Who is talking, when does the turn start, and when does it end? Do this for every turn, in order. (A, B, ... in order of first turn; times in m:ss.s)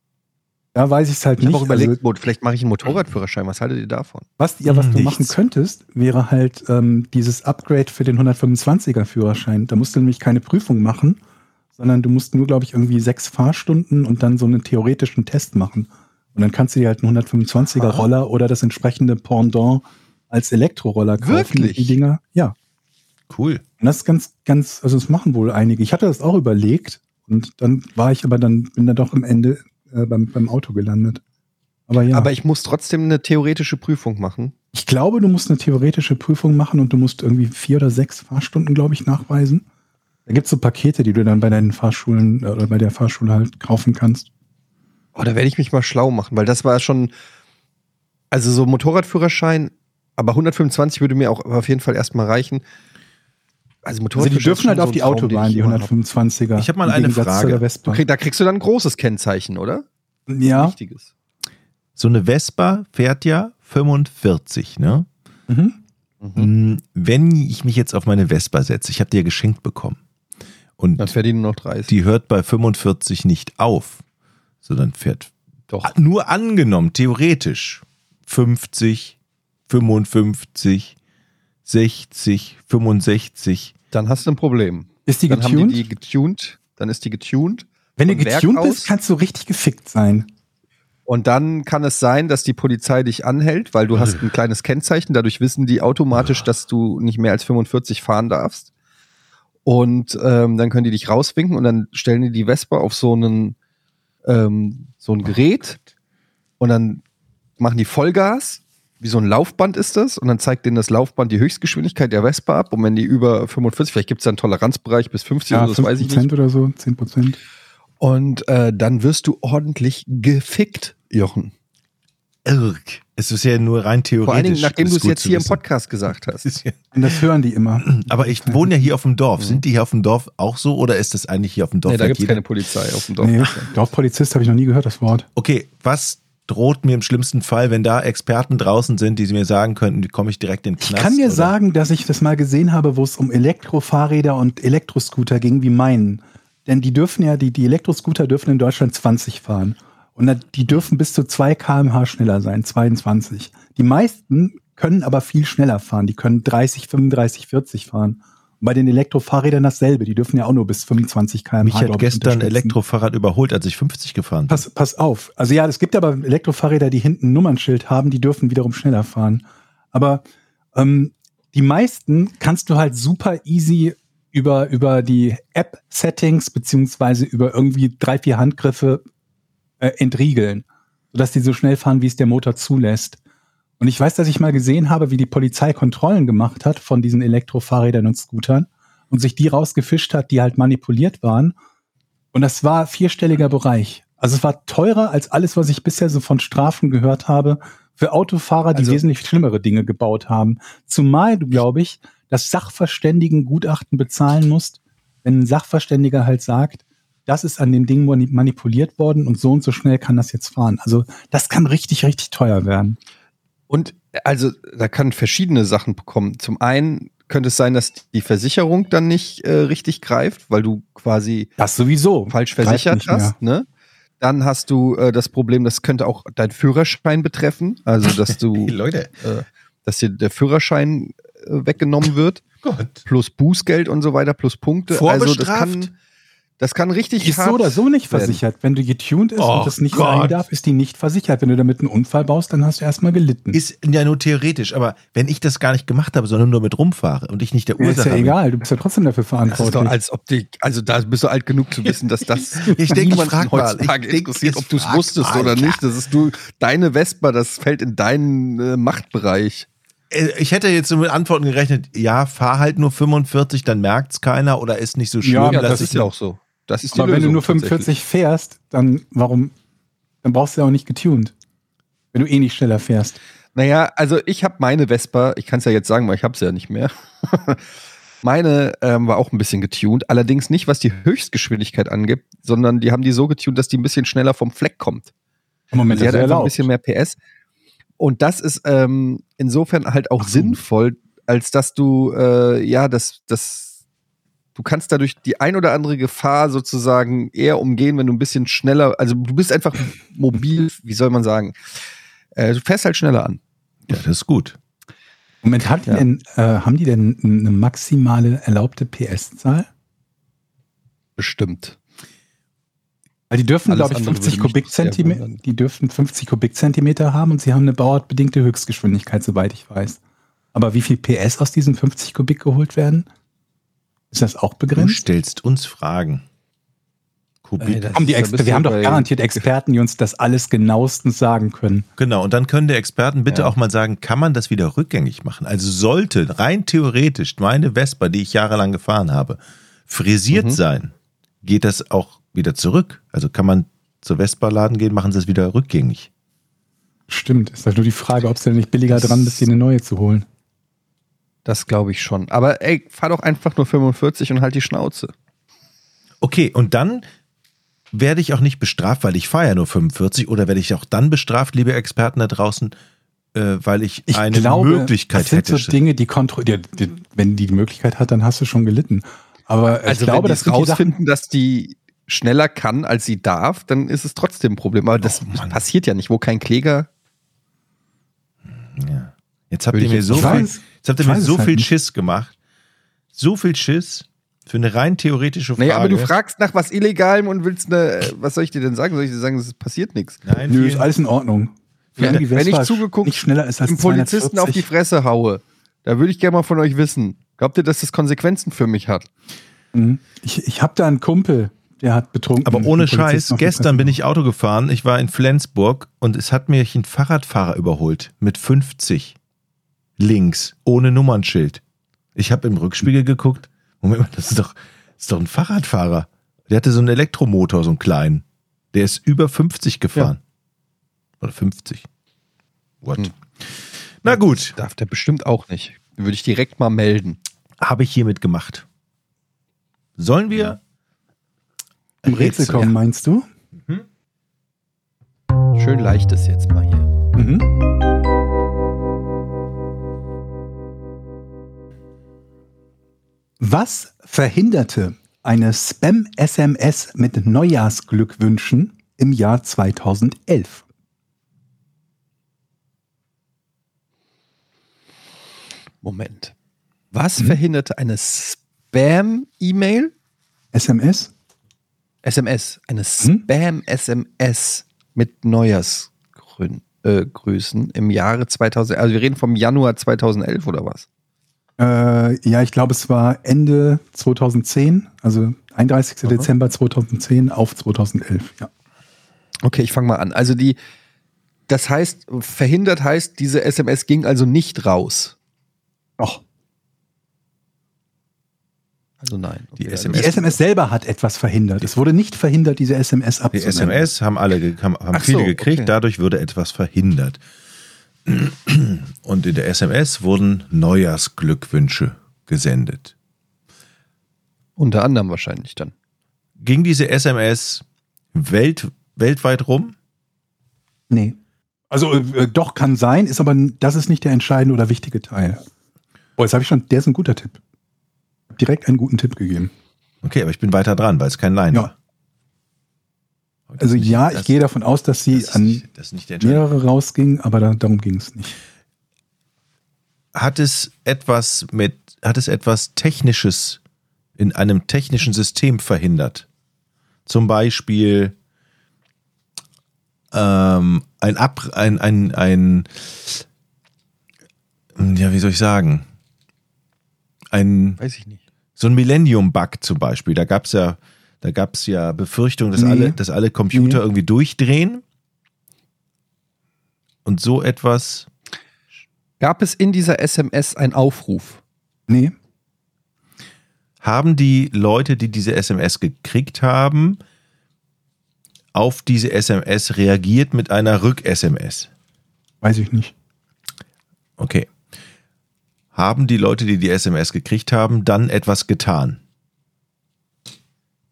0:00.8-0:02.0 A
0:01.4-0:04.3 B
0:04.4-0:11.2 A
0:04.7-0:05.4 C
0:11.8-0:22.5 A
0:21.2-0:22.0 B
0:23.3-0:23.6 C
0:23.8-0:31.2 A
0:31.9-0:32.3 A
0:32.1-0:34.5 B
0:34.7-0:39.6 A
0:40.3-0:44.3 A
0:45.2-0:47.1 B
0:48.3-0:52.6 B
0:53.8-0:55.9 B
0:54.2-0:58.0 A
0:56.6-0:57.7 C
0:57.9-0:59.9 B
1:00.3-1:00.8 A
1:00.5-1:01.1 B
1:02.0-1:05.1 C
1:05.5-1:05.8 A
1:06.2-1:06.5 B
1:06.4-1:10.0 C
1:10.8-1:11.1 C
1:11.0-1:11.9 B
1:11.9-1:14.0 C
1:14.6-1:15.3 C
1:15.8-1:19.2 C
1:19.7-1:21.0 C
1:21.7-1:23.7 C
1:23.9-1:28.9 B
1:25.1-1:25.8 A
1:28.0-1:30.3 A
1:31.1-1:38.7 B
1:39.7-1:43.6 B
1:44.2-1:45.8 B
1:46.6-1:47.0 B
1:47.6-1:56.3 B
1:55.5-1:57.4 A
1:58.0-2:01.5 B
2:02.4-2:05.6 C
2:04.2-2:06.5 B
2:06.5-2:06.7 C
2:06.9-2:08.7 A
2:07.9-2:12.4 C
2:11.9-2:13.7 B
2:13.2-2:15.3 A
2:15.4-2:21.5 C
2:20.8-2:42.8 A
2:41.6-2:44.6 C
2:44.5-2:50.2 A
2:50.8-2:59.0 A
2:59.8-3:03.2 A
3:03.8-3:11.6 A
3:12.3-3:33.0 A
3:18.7-3:19.0 B
3:33.7-3:41.6 B
3:41.6-3:43.3 A
3:42.3-3:43.7 B
3:44.2-3:52.4 B
3:48.0-3:49.1 C
3:52.6-3:53.0 C
3:53.0-3:55.9 B
3:54.9-3:55.9 C
3:56.6-3:58.4 B
3:57.2-4:03.6 A
3:59.4-4:00.4 C
4:03.5-4:08.4 C
4:07.8-4:10.0 A
4:09.5-4:19.7 B
4:11.9-4:15.8 C
4:20.1-4:26.0 C
4:25.2-4:26.0 A
4:25.4-4:27.9 B
4:26.8-4:29.5 A
4:30.2-4:31.3 A
4:32.1-4:33.2 A
4:33.6-4:37.6 B
4:38.2-4:45.1 B
4:45.7-4:46.7 A
4:45.9-4:47.2 B
4:48.0-4:53.7 B
4:50.2-4:50.6 A
4:54.6-5:01.6 B
5:02.4-5:03.4 B
5:03.9-5:04.6 C
5:05.4-5:09.7 A
5:11.2-5:11.8 B
5:13.3-5:20.0 A
5:13.7-5:15.4 B
5:20.5-5:23.1 A
5:24.1-5:25.0 A
5:24.8-5:26.2 C
5:27.4-5:27.8 C
5:27.6-5:29.4 B
5:28.0-5:31.9 A
5:32.0-5:46.1 C
5:40.3-5:40.6 B
5:47.1-5:50.3 A
5:48.9-5:49.4 B
5:51.5-5:55.1 B
5:56.2-5:57.0 C
5:57.9-6:02.8 C
6:03.3-6:05.8 C
6:04.1-6:10.9 A
6:09.9-6:16.9 B
6:15.0-6:15.6 C
6:18.5-6:22.3 C
6:19.7-6:20.5 B
6:20.1-6:21.7 A
6:23.1-6:26.1 C
6:25.6-6:30.2 B
6:30.2-6:30.9 C
6:30.5-6:34.7 A
6:32.0-6:39.1 B
6:39.7-6:44.0 A
6:42.4-6:49.2 C
6:50.0-6:51.6 C
6:52.2-7:00.2 C
7:01.2-7:01.9 C
7:02.8-7:04.6 C
7:04.1-7:07.2 B
7:07.6-7:08.6 C
7:10.0-7:10.6 C
7:12.0-7:12.7 C
7:12.0-7:13.3 A
7:15.6-7:16.9 B
7:17.2-7:17.5 A
7:23.4-7:30.6 A
7:35.8-7:36.3 B
7:36.9-7:39.9 B
7:40.5-7:41.1 A
7:42.0-7:50.9 B
7:51.6-7:58.5 A
7:59.4-8:00.6 B
8:01.5-8:05.2 B
8:09.0-8:10.4 B
8:09.6-8:10.3 C
8:09.9-8:13.9 A
8:13.3-8:17.2 C
8:14.9-8:15.7 B
8:18.1-8:22.9 C
8:24.6-8:25.7 B
8:26.4-8:29.8 C
8:30.9-8:31.2 A
8:31.7-8:35.4 A
8:36.2-8:37.4 A
8:38.3-8:39.5 A
8:40.0-8:41.7 C
8:43.5-8:44.4 C
8:43.6-8:45.6 A
8:45.1-8:46.4 C
8:46.2-8:48.4 A
8:50.2-8:53.6 C
8:54.2-8:56.3 C
8:57.1-8:58.2 C
9:00.1-9:03.2 C
9:04.8-9:05.9 C
9:07.3-9:07.8 C
9:07.8-9:08.2 B
9:08.6-9:14.8 C
9:12.6-9:13.0 A
9:13.5-9:13.8 A
9:17.0-9:18.1 C
9:19.2-9:21.4 B
9:21.9-9:22.1 A
9:23.8-9:27.0 C
9:28.5-9:31.7 C
9:32.4-9:32.9 A
9:34.2-9:34.5 C
9:35.7-9:39.0 C